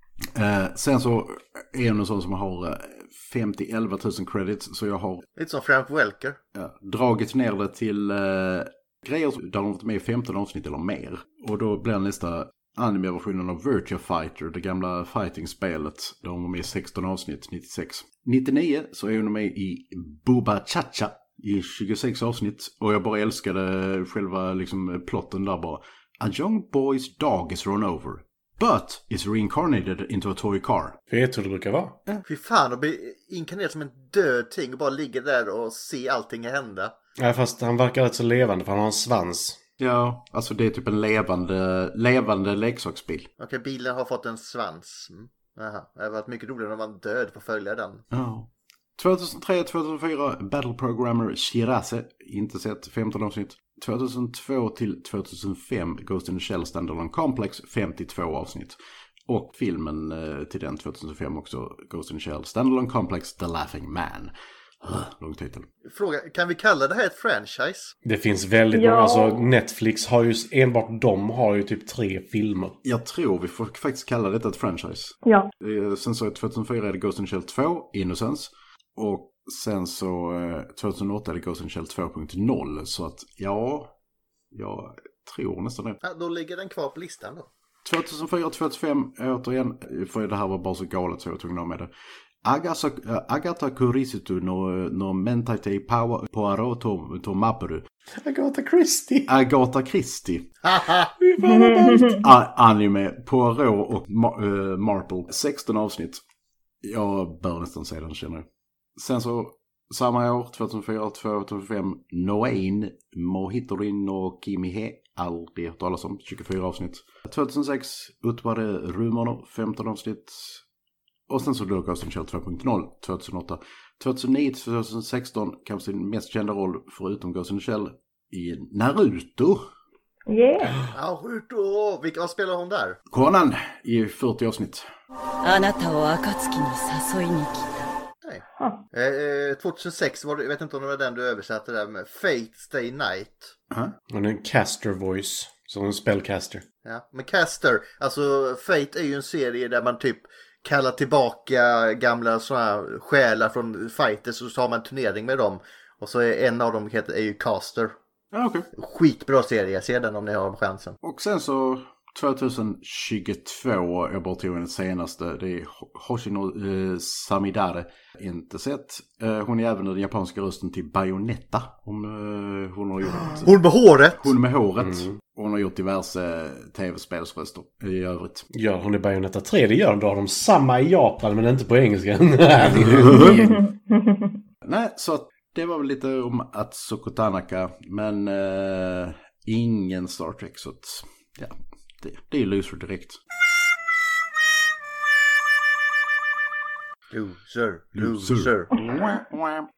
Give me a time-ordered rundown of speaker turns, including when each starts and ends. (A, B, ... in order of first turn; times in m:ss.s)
0:00.3-0:05.2 A
0:05.4-0:06.4 B
0:06.6-0:31.0 A
0:31.1-0:32.0 C
0:32.3-0:36.9 B
0:37.2-0:39.6 C
0:39.8-0:43.3 A
0:43.4-0:48.0 B
0:48.1-0:58.8 A
0:59.3-1:04.3 A
1:04.8-1:05.7 A
1:05.9-1:07.9 B
1:08.0-1:12.8 C
1:08.7-1:09.5 D
1:12.8-1:23.9 A
1:24.5-1:26.0 A
1:26.0-1:27.5 B
1:27.8-1:31.9 A
1:32.4-1:37.8 A
1:38.2-1:39.3 C
1:39.3-1:40.5 A
1:40.6-1:41.1 B
1:41.2-1:42.2 C
1:41.4-1:42.2 D
1:42.1-1:46.2 A
1:46.8-1:48.4 A
1:49.0-2:00.6 A
2:01.3-2:09.6 A
2:10.3-2:10.8 D
2:10.9-2:13.0 B
2:13.1-2:14.9 A
2:15.4-2:17.7 E
2:18.2-2:23.5 B
2:24.1-2:26.6 C
2:26.8-2:38.0 B
2:38.3-2:38.7 A
2:38.8-2:41.0 B
2:41.0-2:53.5 A
2:53.4-2:54.3 B
2:54.2-2:58.5 A
2:54.8-2:55.2 C
2:58.5-3:03.6 C
3:02.7-3:03.4 A
3:03.2-3:04.4 D
3:04.6-3:13.2 A
3:17.1-3:18.7 B
3:18.0-3:19.7 A